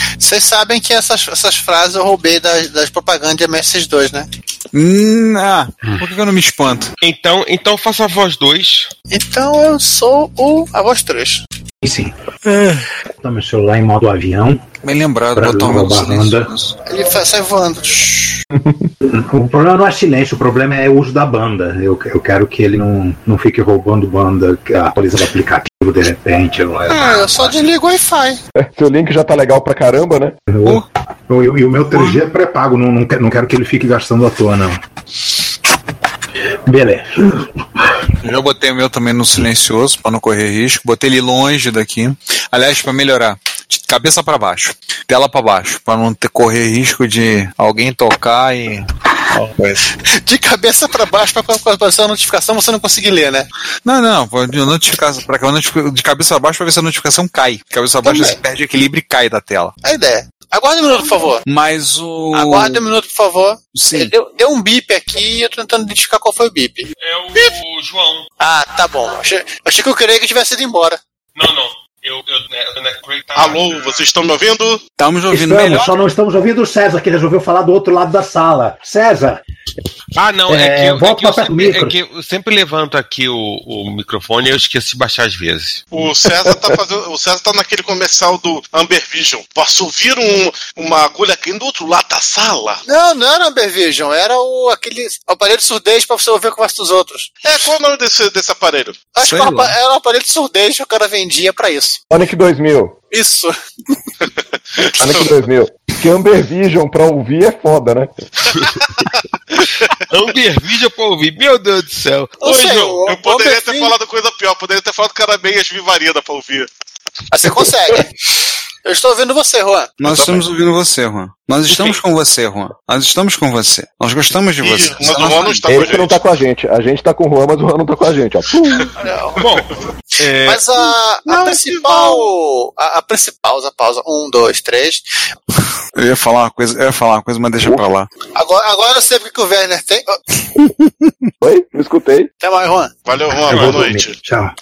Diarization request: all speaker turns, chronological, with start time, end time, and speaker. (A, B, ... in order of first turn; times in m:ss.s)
0:00.2-0:04.3 A
0:04.7-0:06.9 B
0:07.0-0:08.9 C
0:09.1-0:11.4 A
0:11.8-0:12.1 D
0:12.4-0:12.9 B
0:13.2-0:14.7 D
0:14.8-0:16.8 B
0:15.4-0:16.5 D
0:16.9-0:18.4 A
0:18.6-0:18.9 E
0:19.0-0:27.6 D
0:26.9-0:28.4 A
0:28.6-0:30.4 E
0:30.5-0:34.8 D
0:36.6-0:37.6 D
0:38.2-0:49.9 B
0:50.0-0:53.5 A
0:53.8-0:59.7 B
0:58.0-0:58.4 A
0:59.8-1:01.4 A
1:01.5-1:02.8 B
1:02.3-1:07.5 A
1:03.7-1:04.1 B
1:07.0-1:08.2 C
1:08.4-1:11.0 A
1:11.4-1:14.0 C
1:13.4-1:14.8 F
1:15.0-1:15.9 B
1:15.3-1:19.4 D
1:20.1-1:25.9 C
1:20.5-1:22.0 D
1:25.9-1:32.8 F
1:32.9-1:37.4 A
1:37.4-1:39.1 F
1:39.1-1:42.0 A
1:39.2-1:39.8 B
1:42.1-1:43.0 E
1:43.1-1:43.5 A
1:44.8-1:45.3 F
1:45.0-1:48.1 E
1:50.1-1:53.0 C
1:52.4-1:53.9 A
1:53.0-1:56.7 F
1:57.3-1:58.1 A
1:58.8-2:00.0 A
2:00.0-2:05.7 B
2:00.1-2:00.4 F
2:04.6-2:06.2 F
2:05.7-2:08.9 E
2:09.0-2:09.4 A
2:09.4-2:10.9 C
2:10.4-2:15.0 A
2:11.3-2:12.3 F
2:16.0-2:18.1 B
2:17.6-2:17.9 E
2:18.3-2:20.2 A
2:21.4-2:22.3 E
2:22.4-2:22.9 A
2:23.0-2:24.2 F
2:23.4-2:24.5 D
2:23.5-2:23.9 C